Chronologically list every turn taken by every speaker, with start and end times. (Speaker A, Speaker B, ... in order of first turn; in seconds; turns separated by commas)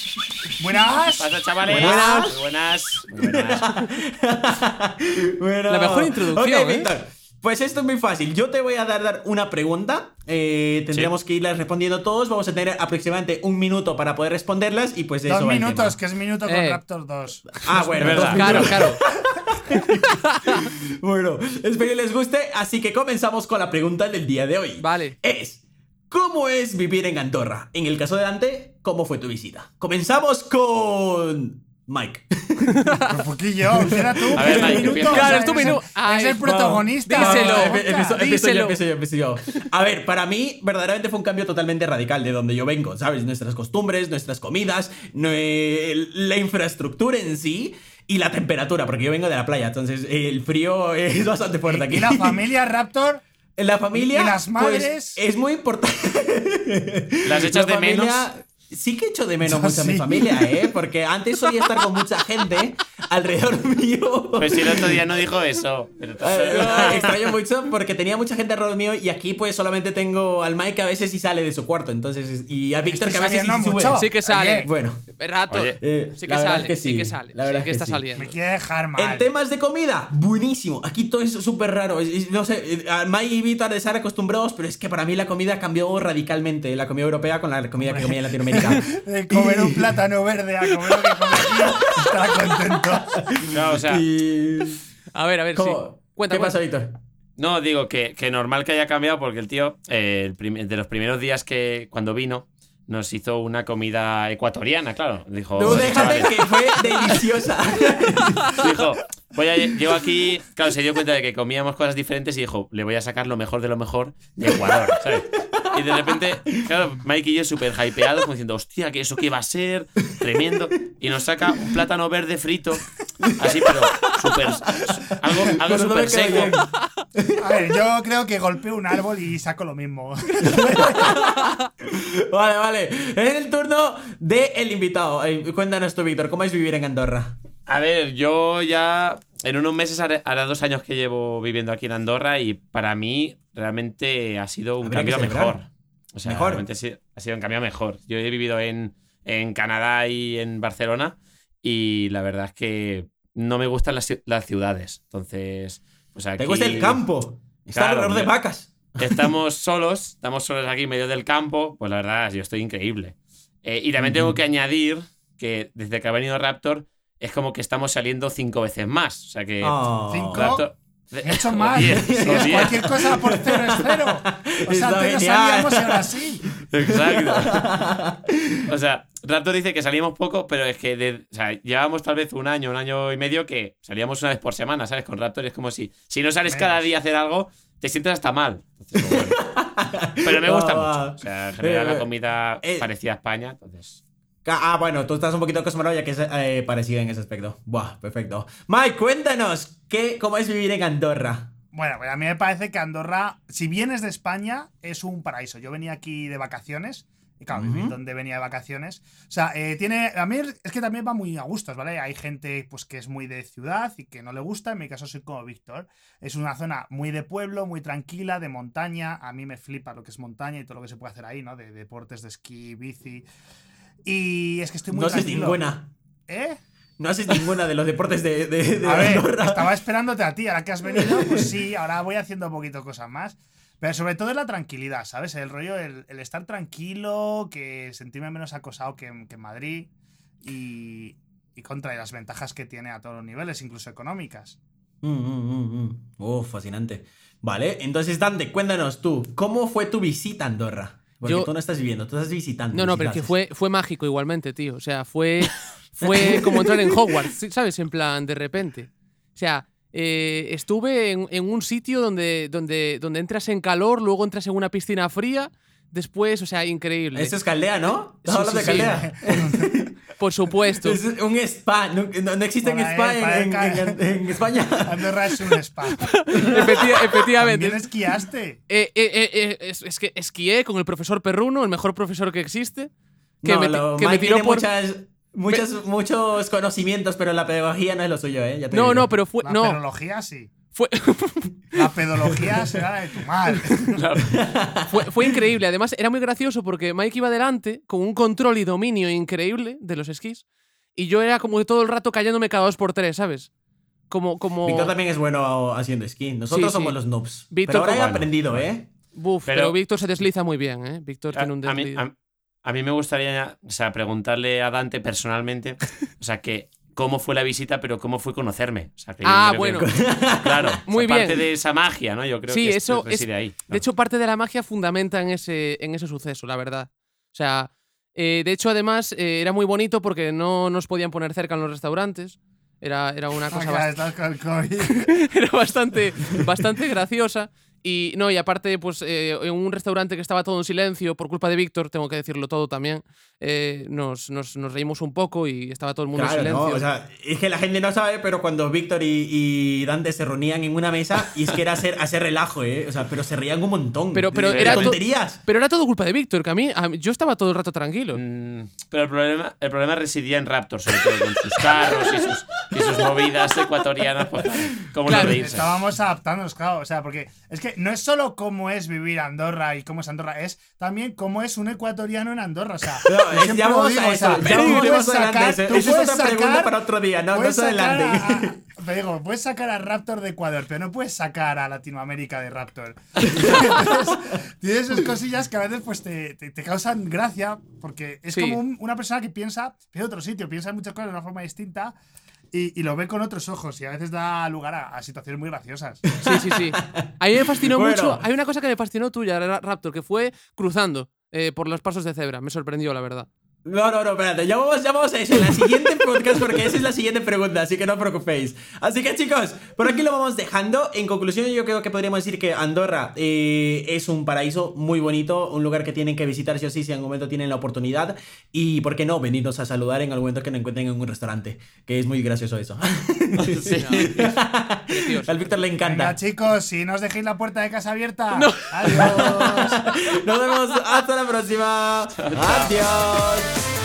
Speaker A: 0.6-1.9, Speaker B: 1.2-3.8, Speaker C: 1.6-2.4, Speaker C: 3.2-15.9, Speaker D: 5.7-6.9, Speaker A: 15.2-18.6, Speaker D: 16.4-16.8, Speaker C: 17.6-33.0, Speaker B: 18.0-18.8, Speaker D: 18.3-19.0, Speaker D: 24.8-25.1, Speaker A: 33.0-38.3, Speaker C: 33.8-35.7, Speaker B: 34.3-35.5, Speaker D: 35.1-36.5, Speaker C: 36.4-52.4, Speaker D: 37.0-38.8, Speaker A: 51.6-53.2, Speaker C: 53.6-65.0, Speaker A: 53.9-55.2, Speaker B: 57.2-58.3, Speaker A: 59.4-60.7, Speaker B: 64.4-67.1, Speaker C: 66.2-75.0, Speaker D: 66.6-67.0, Speaker A: 72.8-74.7, Speaker D: 73.9-78.3, Speaker B: 75.5-75.8, Speaker C: 75.7-78.0, Speaker A: 78.2-79.3, Speaker C: 79.0-89.9, Speaker A: 87.8-93.2, Speaker C: 90.8-92.1, Speaker C: 93.2-94.8, Speaker B: 93.5-94.0, Speaker D: 95.1-96.4, Speaker C: 95.5-97.0, Speaker B: 97.4-106.5, Speaker C: 105.5-108.6, Speaker B: 108.5-126.5, Speaker C: 114.6-115.0, Speaker C: 115.5-116.7, Speaker C: 123.2-124.2, Speaker C: 125.4-127.4, Speaker A: 127.4-131.2, Speaker C: 130.5-137.4, Speaker B: 137.7-157.0, Speaker C: 144.8-145.6, Speaker C: 146.2-146.6, Speaker C: 156.4-159.3, Speaker B: 157.7-158.3, Speaker B: 159.0-172.9, Speaker C: 164.0-164.4, Speaker C: 169.6-170.6, Speaker A: 170.1-170.7, Speaker A: 171.2-176.4, Speaker C: 171.7-178.6, Speaker B: 176.7-177.7, Speaker B: 178.7-189.4, Speaker A: 186.4-186.8, Speaker C: 188.9-192.1, Speaker B: 190.2-194.0, Speaker C: 192.6-192.9, Speaker C: 194.4-201.5, Speaker A: 201.7-223.2, Speaker C: 207.5-207.9, Speaker A: 224.0-225.6, Speaker C: 224.9-225.9, Speaker A: 226.3-226.6, Speaker C: 227.0-229.7, Speaker A: 228.8-239.9, Speaker C: 230.9-231.4, Speaker A: 240.4-244.6, Speaker C: 245.0-253.3, Speaker D: 252.7-255.4, Speaker C: 256.0-257.1, Speaker D: 256.0-267.3, Speaker C: 267.1-270.0, Speaker D: 268.2-269.0, Speaker A: 268.8-269.9, Speaker D: 270.2-271.0, Speaker C: 270.8-275.1, Speaker A: 272.6-276.6, Speaker D: 276.0-277.8, Speaker C: 276.3-277.2, Speaker A: 277.4-278.6, Speaker D: 278.7-282.9, Speaker C: 283.4-289.1, Speaker D: 283.4-284.6, Speaker D: 288.7-289.8, Speaker A: 289.4-290.5, Speaker D: 290.7-291.6, Speaker A: 291.7-294.0, Speaker B: 293.9-294.3, Speaker C: 294.3-295.4, Speaker D: 294.9-300.4, Speaker D: 300.9-303.5, Speaker D: 304.1-304.9, Speaker C: 304.6-308.9, Speaker D: 306.5-307.0, Speaker B: 307.8-308.6, Speaker D: 309.1-312.0, Speaker B: 309.4-309.7, Speaker B: 311.3-312.1, Speaker B: 312.6-323.8, Speaker D: 319.2-319.8, Speaker C: 319.7-320.8, Speaker D: 320.9-321.4, Speaker D: 322.5-334.0, Speaker A: 333.5-335.1, Speaker D: 334.8-346.8, Speaker C: 346.1-355.4, Speaker D: 354.1-358.2, Speaker B: 354.5-354.9, Speaker B: 358.1-365.7, Speaker C: 361.1-363.6, Speaker C: 364.4-365.5, Speaker D: 365.1-365.4, Speaker A: 365.2-376.8, Speaker C: 373.0-378.6, Speaker D: 374.6-375.0, Speaker A: 377.3-391.9, Speaker C: 383.3-383.7, Speaker D: 388.3-388.6, Speaker A: 392.5-396.2, Speaker C: 396.1-398.2, Speaker D: 396.3-403.3, Speaker C: 403.6-426.2, Speaker B: 423.4-424.2, Speaker D: 423.7-424.3, Speaker D: 425.1-425.5, Speaker A: 425.8-429.8, Speaker D: 428.4-429.2, Speaker C: 428.9-433.5, Speaker B: 432.2-432.8